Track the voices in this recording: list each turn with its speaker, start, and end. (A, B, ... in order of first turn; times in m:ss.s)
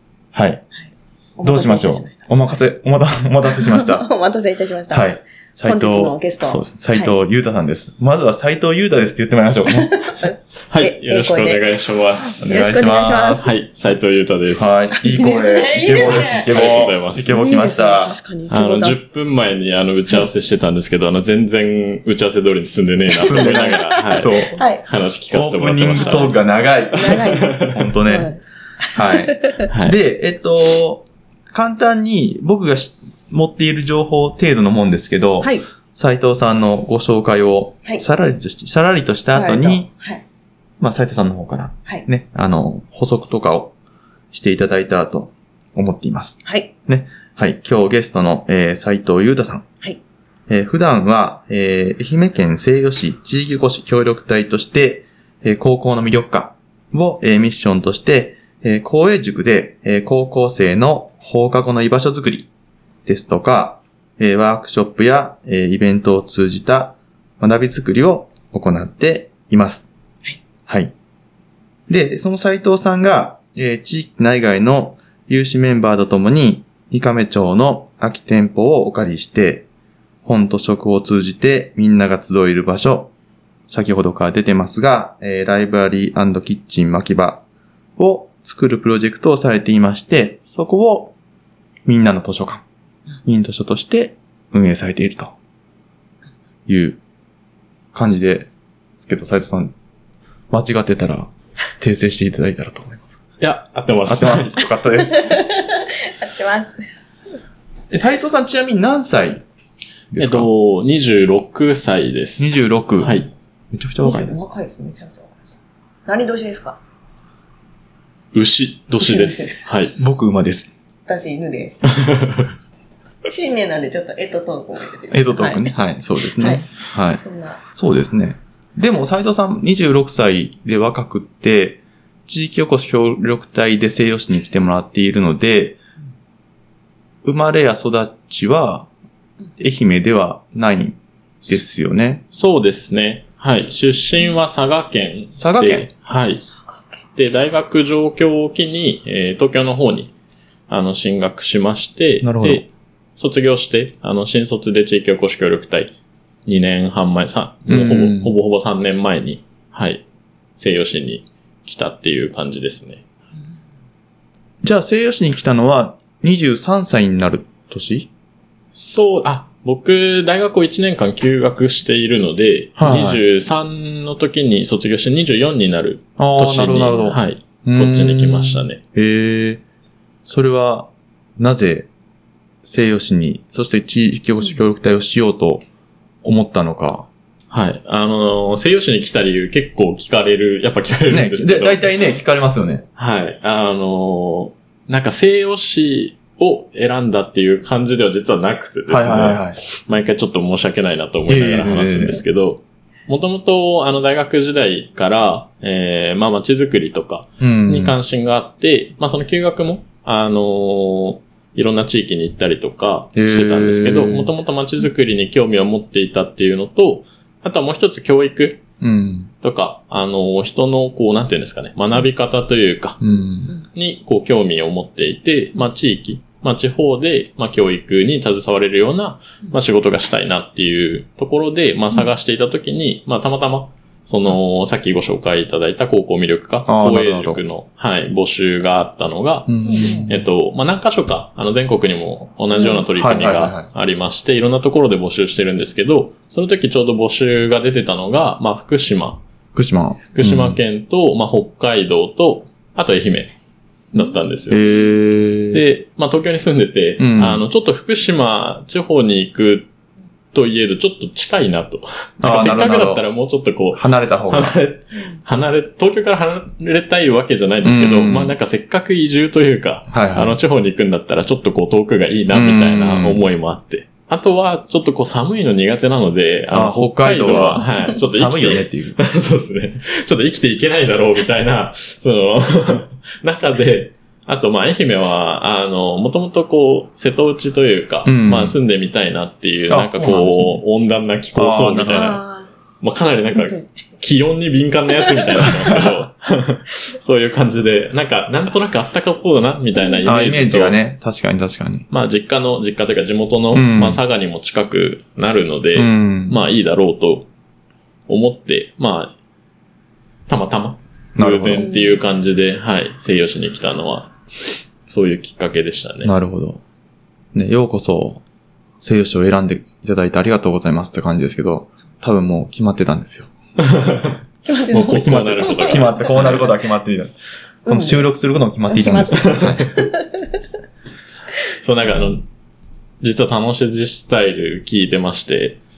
0:00.3-0:00.6 A
0:00.9-0:02.3 B
0:01.4-0:04.1 A
0:03.4-0:07.1 B
0:04.9-0:10.0 A
0:09.7-0:11.6 B
0:10.7-0:12.6 C
0:12.4-0:13.4 B
0:12.4-0:13.5 A
0:13.4-0:14.8 C
0:14.5-0:18.2 A
0:14.9-0:19.0 B
0:16.5-0:17.3 C
0:18.5-0:26.4 C
0:23.1-0:24.8 B
0:23.1-0:24.6 A
0:25.3-0:28.3 A
0:26.0-0:26.3 B
0:26.9-0:29.7 B
0:27.0-0:27.8 C
0:28.9-0:39.9 A
0:29.7-0:30.0 C
0:35.4-0:35.6 B
0:39.3-0:40.2 B
0:40.8-0:43.7 A
0:44.3-0:49.6 A
0:46.4-0:46.7 B
0:50.5-1:02.5 A
1:03.0-1:09.9 A
1:10.7-1:10.9 A
1:11.9-1:19.7 A
1:20.2-1:23.1 A
1:23.7-1:27.4 A
1:28.0-1:31.1 A
1:31.8-1:32.6 A
1:33.2-1:35.3 A
1:36.7-1:37.0 A
1:37.9-1:39.7 A
1:40.5-1:43.2 A
1:43.4-1:44.6 C
1:44.0-1:45.4 A
1:45.0-1:46.9 B
1:47.9-1:49.4 A
1:50.1-1:50.5 A
1:50.2-1:53.3 C
1:52.4-1:53.2 A
1:53.7-1:54.3 A
1:54.0-1:56.8 B
1:58.3-2:00.0 C
1:59.0-1:59.6 B
2:00.0-2:00.7 A
2:01.1-2:02.0 B
2:01.9-2:02.5 C
2:03.2-2:05.7 B
2:05.1-2:07.2 A
2:06.4-2:07.6 B
2:07.7-2:15.8 A
2:17.2-2:18.9 A
2:19.6-2:22.2 A
2:22.3-2:26.4 C
2:25.4-2:25.9 A
2:26.4-2:27.0 B
2:27.2-2:30.1 C
2:30.7-2:35.9 C
2:32.2-2:32.6 A
2:36.4-2:40.0 C
2:37.7-2:38.3 A
2:40.6-2:43.0 C
2:44.6-2:48.1 A
2:48.7-2:58.8 C
2:52.8-2:53.2 A
2:56.2-2:59.6 A
3:00.2-3:01.9 A
3:02.6-3:05.6 A
3:06.2-3:07.1 A
3:07.5-3:11.9 C
3:11.1-3:12.8 A
3:13.0-3:38.6 C
3:18.9-3:19.6 A
3:21.3-3:22.2 A
3:27.4-3:28.0 A
3:33.1-3:34.3 A
3:38.8-3:39.3 A
3:39.4-3:43.0 C
3:43.0-3:43.5 A
3:43.6-4:09.2 C
3:56.6-3:57.4 A
3:59.5-4:00.2 A
3:59.6-4:00.1 B
4:02.5-4:02.8 B
4:03.0-4:03.7 A
4:09.5-4:10.6 A
4:10.1-4:13.3 C
4:13.9-4:14.6 C
4:14.5-4:15.6 A
4:15.5-4:19.7 C
4:17.0-4:17.4 A
4:20.3-4:52.2 C
4:22.2-4:23.0 A
4:23.7-4:24.6 A
4:27.6-4:28.3 A
4:29.9-4:30.4 A
4:32.3-4:33.2 A
4:36.5-4:39.0 A
4:48.0-4:48.6 A
4:49.7-4:50.6 A
4:51.3-4:52.2 A
4:51.9-4:52.5 B
4:52.8-5:00.8 C
4:55.4-4:56.0 A
5:00.0-5:01.9 A
5:01.9-5:07.3 C
5:03.5-5:04.0 A
5:05.8-5:06.4 A
5:08.1-5:09.1 C
5:10.3-5:16.1 C
5:11.2-5:11.7 A
5:11.6-5:12.0 B
5:16.0-5:16.6 A
5:17.3-5:18.2 A
5:18.8-5:23.3 A
5:23.6-5:24.2 C
5:24.4-5:26.4 B
5:24.7-5:26.6 C
5:24.8-5:27.1 A
5:27.6-5:28.1 B
5:27.6-5:29.7 A
5:28.7-5:30.4 B
5:29.2-5:29.7 C
5:31.6-5:32.2 C
5:33.0-5:35.6 C